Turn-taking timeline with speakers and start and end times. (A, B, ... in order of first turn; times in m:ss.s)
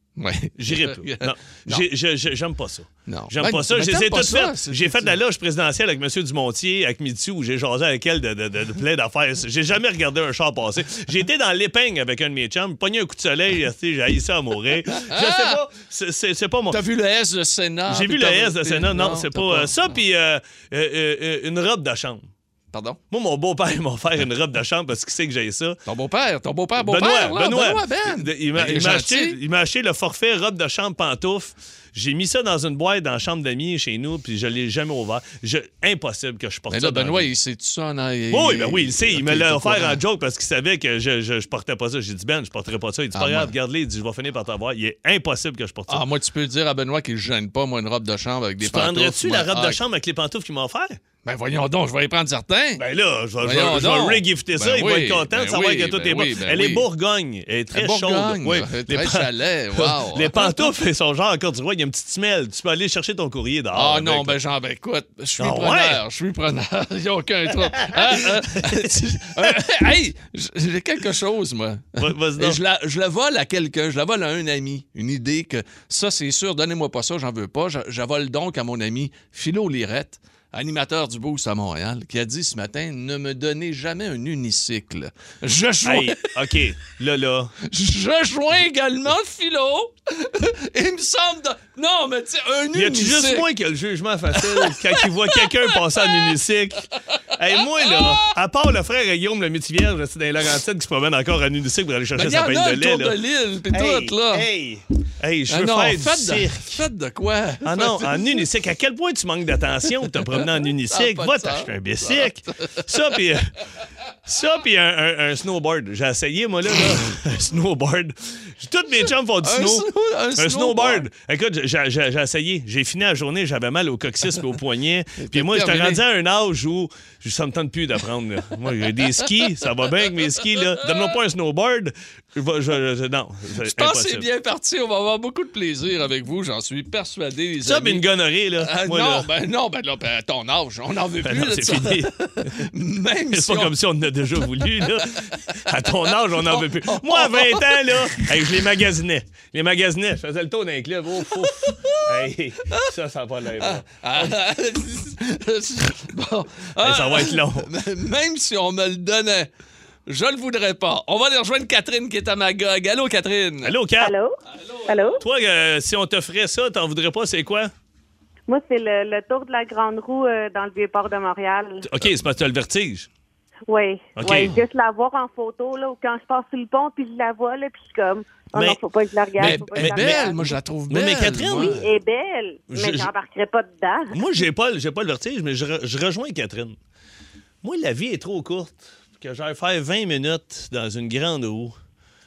0:00.2-0:01.8 A
0:00.6-0:16.8 B
0:03.0-0:05.1 A
0:14.9-0:15.6 A
0:16.7-0:19.8 A
0:17.9-0:22.3 B
0:22.7-0:23.0 A
0:23.1-0:25.8 B
0:25.8-0:29.4 A
0:26.8-0:37.3 B
0:36.7-0:40.0 A
0:38.3-0:46.0 B
0:43.1-0:43.5 A
0:45.9-0:49.8 A
0:48.6-0:51.0 B
0:51.2-0:52.8 A
0:52.8-1:04.4 B
0:53.4-0:56.9 A
0:57.7-1:00.7 A
1:03.7-1:26.3 A
1:05.4-1:06.0 B
1:07.8-1:09.5 B
1:12.0-1:12.6 B
1:25.8-1:27.5 B
1:27.6-1:33.5 A
1:32.7-1:43.2 B
1:34.4-1:36.3 A
1:37.8-1:38.3 A
1:42.1-1:44.5 A
1:43.7-1:46.8 B
1:45.5-1:48.4 A
1:47.6-1:53.5 B
1:50.9-1:52.9 A
1:54.2-2:14.3 B
1:59.4-2:01.1 A
2:05.2-2:06.0 A
2:13.6-2:18.0 A
2:17.6-2:19.3 B
2:18.6-2:23.8 A
2:21.2-2:22.7 B
2:23.3-2:34.3 B
2:26.3-2:28.4 A
2:31.5-2:32.1 A
2:33.6-2:39.5 A
2:36.8-2:37.7 B
2:40.1-2:43.7 A
2:43.6-2:44.1 B
2:44.0-2:44.4 C
2:44.5-2:45.2 A
2:44.9-2:45.2 C
2:45.2-2:47.7 B
2:48.5-2:51.8 C
2:51.8-2:53.1 B
2:53.7-3:00.5 C
2:54.2-2:54.6 B
2:58.5-2:58.8 B
2:59.4-3:00.3 B
2:59.4-3:01.8 A
3:00.9-3:01.8 B
3:01.6-3:04.2 C
3:02.7-3:03.1 B
3:04.1-3:06.8 B
3:07.6-3:11.8 B